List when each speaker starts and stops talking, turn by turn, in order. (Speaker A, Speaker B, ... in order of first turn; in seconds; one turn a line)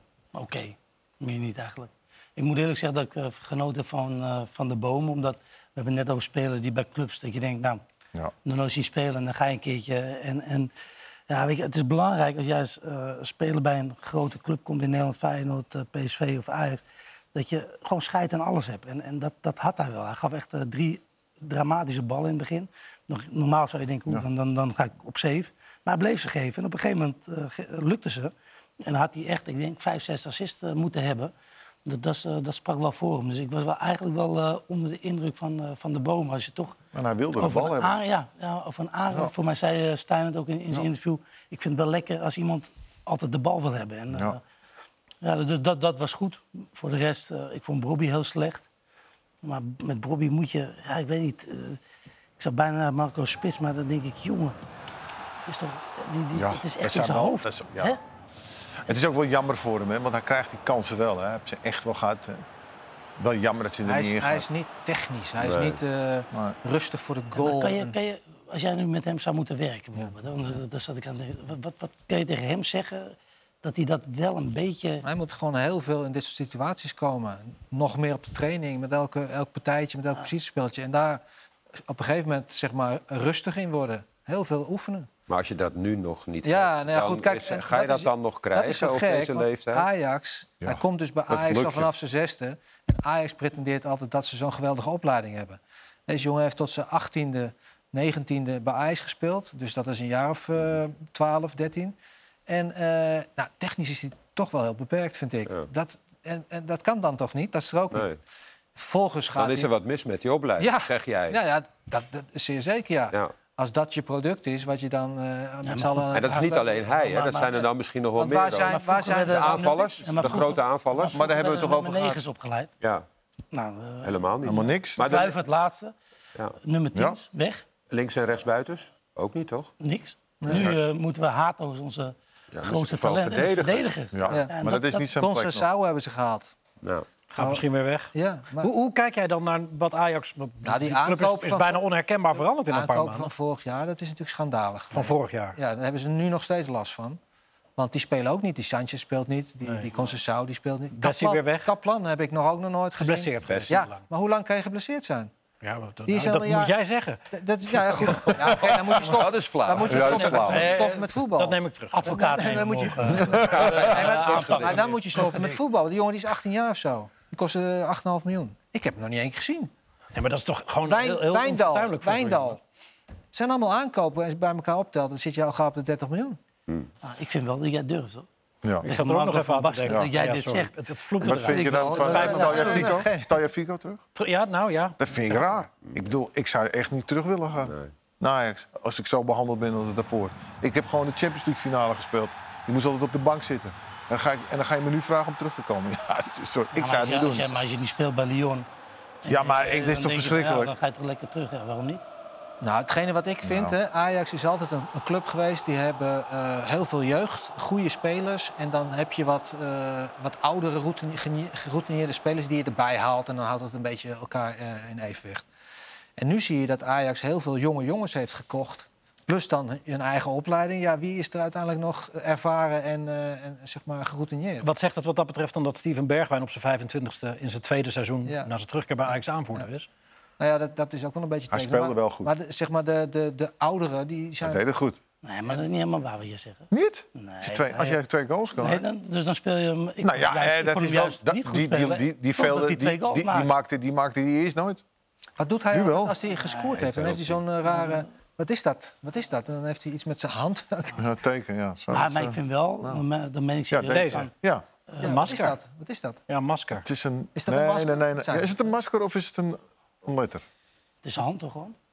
Speaker A: 0.3-7.8
Speaker A: 8.4-10.7
Speaker A: 11.3-16.8
Speaker A: 17.3-28.3
Speaker A: 28.9-31.3
Speaker A: 31.9-36.8
Speaker B: 36.9-38.0
Speaker A: 37.4-44.4
Speaker A: 45.2-48.7
Speaker A: 49.4-51.8
Speaker A: 52.4-54.6
Speaker A: 55.4-58.0
Speaker B: 56.3-58.0
Speaker B: 58.9-62.4
Speaker B: 63.2-64.5
Speaker C: 63.9-68.0
Speaker D: 65.4-65.8
Speaker A: 67.4-75.0
Speaker C: 75.0-81.2
Speaker C: 81.8-85.1
Speaker D: 85.3-89.9
Speaker C: 86.4-102.0
Speaker D: 91.3-91.9
Speaker C: 102.5-108.1
Speaker D: 107.9-108.2
Speaker C: 108.8-109.7
Speaker D: 109.3-111.4
Speaker C: 110.6-116.7
Speaker A: 115.7-117.7
Speaker D: 116.1-121.2
Speaker C: 118.2-120.4
Speaker A: 118.7-122.7
Speaker B: 121.1-122.2
Speaker A: 123.5-125.9
Speaker D: 124.0-125.4
Speaker B: 124.4-125.1
Speaker A: 126.6-127.6
Speaker B: 127.0-127.2
Speaker D: 127.9-129.7
Speaker A: 129.8-135.1
Speaker C: 130.4-130.7
Speaker B: 130.5-130.8
Speaker D: 132.5-134.0
Speaker B: 134.1-135.7
Speaker C: 135.1-136.5
Speaker E: 137.3-143.3
Speaker C: 137.4-138.7
Speaker C: 140.6-141.8
Speaker C: 142.4-147.2
Speaker E: 144.9-145.6
Speaker C: 147.8-155.3
Speaker E: 149.6-150.2
Speaker E: 150.9-151.7
Speaker E: 153.0-154.1
Speaker E: 155.6-157.2
Speaker C: 156.1-156.8
Speaker C: 157.3-169.7
Speaker D: 158.6-160.4
Speaker B: 159.9-160.7
Speaker E: 160.1-162.1
Speaker A: 160.4-161.0
Speaker A: 161.9-165.6
Speaker B: 163.2-163.5
Speaker D: 163.4-165.0
Speaker E: 170.2-172.6
Speaker C: 170.8-172.6
Speaker C: 173.3-176.4
Speaker A: 177.0-178.3
Speaker A: 178.8-182.9
Speaker E: 178.9-182.9
Speaker B: 181.2-184.0
Speaker C: 182.0-183.3
Speaker E: 184.2-185.0
Speaker B: 185.0-197.5
Speaker D: 187.7-187.9
Speaker A: 196.8-198.7
Speaker A: 199.2-202.0
Speaker B: 199.3-200.7
Speaker C: 202.6-215.5
Speaker B: 203.4-203.8
Speaker C: 216.2-224.7
Speaker E: 224.6-229.9
Speaker C: 228.3-228.5
Speaker C: 230.4-234.6
Speaker B: 231.5-232.3
Speaker B: 234.4-235.0
Speaker A: 235.2-238.0
Speaker B: 236.7-238.8
Speaker A: 238.6-243.5
Speaker B: 240.0-244.8
Speaker C: 245.4-251.1
Speaker B: 245.7-246.2
Speaker A: 246.4-246.6
Speaker D: 246.8-247.4
Speaker A: 247.7-248.0
Speaker B: 251.0-253.0
Speaker A: 251.9-254.3
Speaker B: 253.7-254.7
Speaker E: 253.9-254.3
Speaker E: 255.0-255.6
Speaker C: 255.0-256.2
Speaker E: 256.3-256.9
Speaker B: 256.8-260.4
Speaker C: 257.4-258.7
Speaker A: 261.0-261.8